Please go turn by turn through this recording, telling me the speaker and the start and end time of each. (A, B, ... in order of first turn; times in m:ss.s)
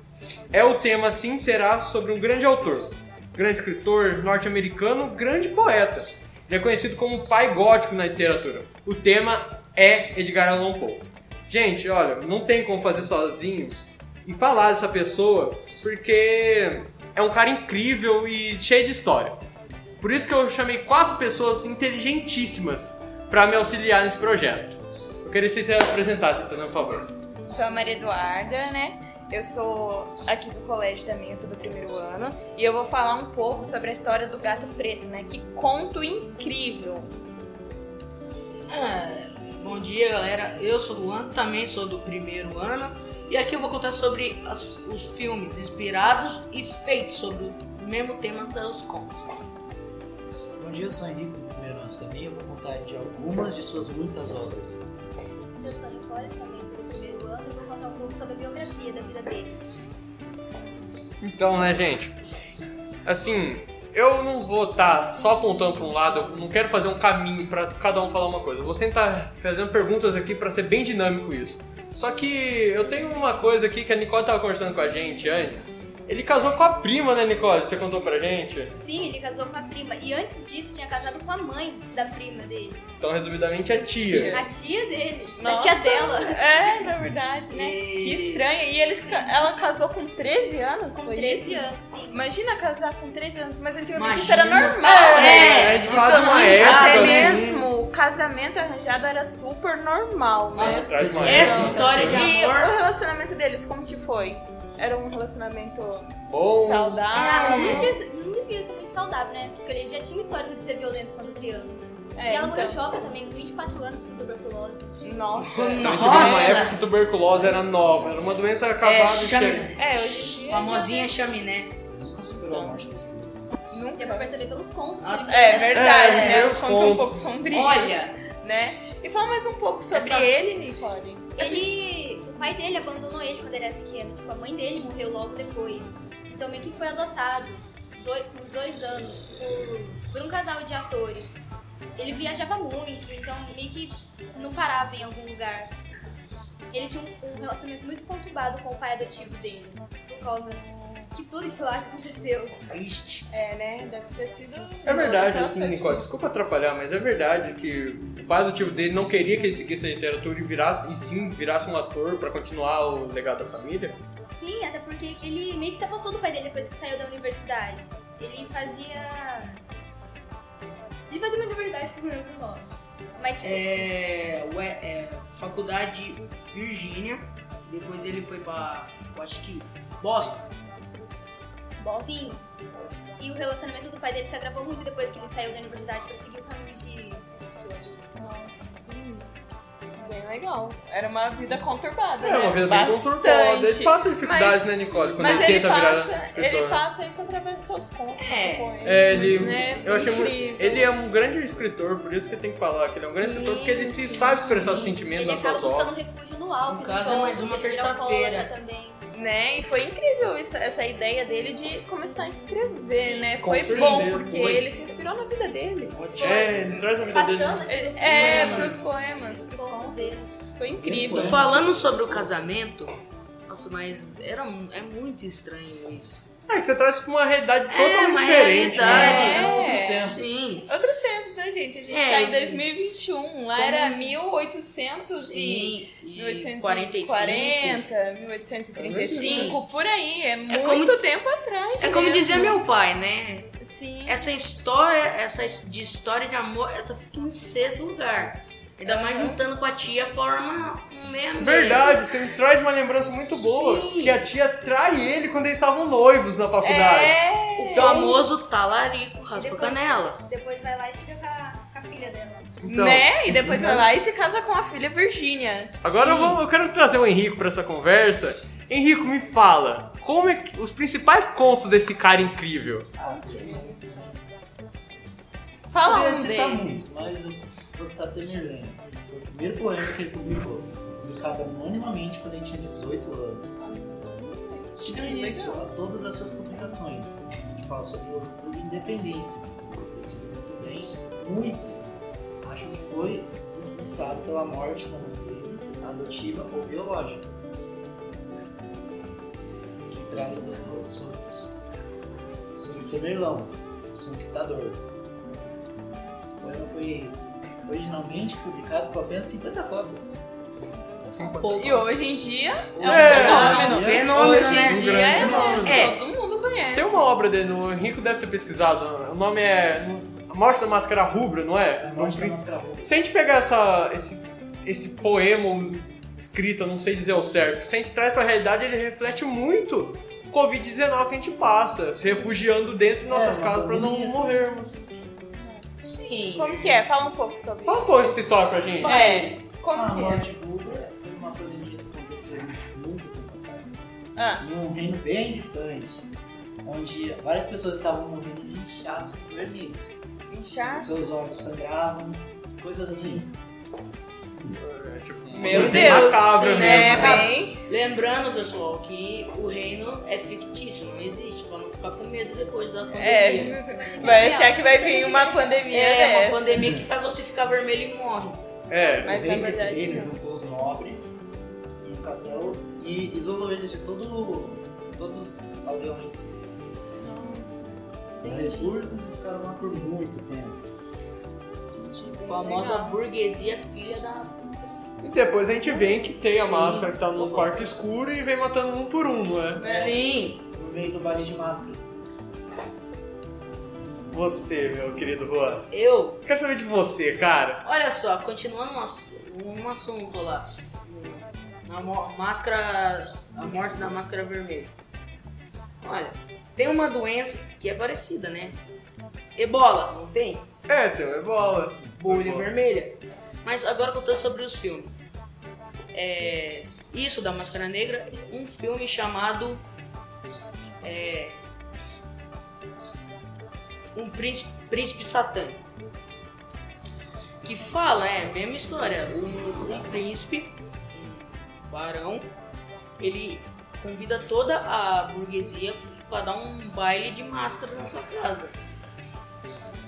0:00.5-0:19.4 A
0:20.0-0:27.1 A
0:27.4-0:37.1 B
0:38.7-0:49.4 C
0:50.6-0:54.8 D
0:55.6-0:59.6 E
1:01.2-1:02.2 A
1:03.0-1:18.7 A
1:18.8-1:22.8 E
1:23.0-1:24.4 A
1:24.0-1:24.5 B
1:24.3-1:26.8 E
1:25.4-1:48.0 B
1:27.5-1:28.4 C
1:30.9-1:32.2 E
1:33.9-1:37.5 C
1:34.8-1:37.7 A
1:40.5-1:42.2 D
1:40.5-1:42.7 C
1:40.5-1:42.1 A
1:46.3-1:47.0 A
1:47.1-1:48.0 C
1:47.2-1:55.0 E
1:52.1-1:52.8 B
1:55.0-1:56.7 B
1:55.3-1:56.8 C
1:55.8-1:59.7 A
1:57.5-1:58.4 D
1:58.8-2:01.8 C
1:59.8-2:01.1 B
2:01.9-2:03.5 D
2:02.5-2:02.8 B
2:03.7-2:04.3 B
2:04.0-2:05.9 E
2:05.0-2:06.6 C
2:05.2-2:11.7 B
2:05.7-2:07.2 A
2:07.5-2:08.2 C
2:09.9-2:10.4 C
2:11.4-2:21.4 E
2:11.4-2:12.3 C
2:22.0-2:25.7 E
2:26.7-2:32.6 E
2:30.3-2:31.1 B
2:32.7-2:33.2 C
2:33.3-2:36.1 B
2:34.8-2:44.0 A
2:44.3-2:49.6 E
2:51.1-2:53.8 E
2:53.4-3:00.5 C
3:01.8-3:02.4 B
3:02.0-3:02.4 E
3:03.2-3:08.0 E
3:08.2-3:09.3 B
3:09.9-3:20.9 B
3:12.2-3:16.8 A
3:15.2-3:15.5 C
3:18.2-3:18.7 C
3:18.8-3:25.9 A
3:23.0-3:25.0 C
3:25.1-3:29.0 E
3:26.6-3:28.5 C
3:29.1-3:36.0 B
3:33.0-3:33.3 E
3:33.4-3:34.6 A
3:33.6-3:34.6 C
3:35.9-3:36.8 C
3:36.2-3:40.4 E
3:36.2-3:37.6 A
3:37.7-3:41.4 B
3:38.0-3:38.8 C
3:40.7-3:42.2 D
3:41.1-3:46.3 C
3:46.5-3:49.6 A
3:47.7-3:50.7 C
3:48.7-3:50.4 D
3:48.8-4:02.6 B
3:51.9-3:52.6 C
3:53.6-3:54.2 C
3:55.0-3:57.8 C
3:58.8-3:59.5 A
3:59.1-3:59.6 C
4:00.5-4:01.0 C
4:01.8-4:12.1 C
4:03.6-4:04.2 B
4:08.8-4:09.4 B
4:11.4-4:18.2 A
4:13.4-4:14.2 C
4:16.6-4:18.2 B
4:17.6-4:20.2 C
4:19.3-4:22.6 E
4:22.6-4:23.6 A
4:22.6-4:26.4 B
4:23.2-4:23.9 D
4:25.8-4:32.9 A
4:33.0-4:34.2 D
4:33.0-4:33.7 B
4:35.7-4:37.0 B
4:35.8-4:43.5 D
4:43.6-4:45.6 B
4:44.8-4:57.3 D
4:59.9-5:01.2 D
5:02.5-5:04.8 D
5:06.2-5:10.2 D
5:11.1-5:11.8 A
5:11.3-5:17.0 B
5:11.4-5:11.9 C
5:12.7-5:16.0 C
5:12.8-5:16.0 A
5:12.9-5:14.2 D
5:16.7-5:34.8 A
5:21.8-5:22.9 D
5:33.0-5:34.4 D
5:35.4-5:35.6 B
5:35.8-5:36.8 C
5:36.3-5:40.3 B
5:37.6-5:39.1 A
5:38.8-5:39.4 C
5:39.7-5:43.9 D
5:44.2-5:44.4 B
5:44.4-5:46.0 D
5:46.6-5:49.8 D
5:50.3-5:51.1 B
5:50.7-5:53.3 D
5:54.5-5:57.3 A
5:55.3-5:57.2 D
5:55.3-5:57.6 B
5:55.6-6:04.3 C
6:02.9-6:06.7 B
6:03.7-6:05.6 E
6:05.7-6:08.4 C
6:06.6-6:06.8 D
6:08.7-6:09.1 A
6:09.0-6:10.2 B
6:09.0-6:11.2 D
6:11.8-6:16.4 D
6:17.0-6:18.8 B
6:18.2-6:20.6 D
6:21.8-6:23.0 B
6:22.2-6:24.4 C
6:25.0-6:29.9 A
6:25.8-6:27.7 C
6:29.6-6:30.4 C
6:29.6-6:29.9 B
6:29.6-6:29.9 D
6:30.5-6:32.0 D
6:34.1-6:35.7 A
6:35.7-6:36.2 C
6:36.2-6:37.6 A
6:37.6-6:44.7 C
6:45.8-6:48.6 C
6:49.4-6:50.5 C
6:50.7-6:52.5 A
6:52.0-6:55.0 C
6:55.9-6:59.6 C
7:00.8-7:01.4 C
7:03.9-7:05.6 C
7:07.4-7:12.3 C
7:13.0-7:18.6 C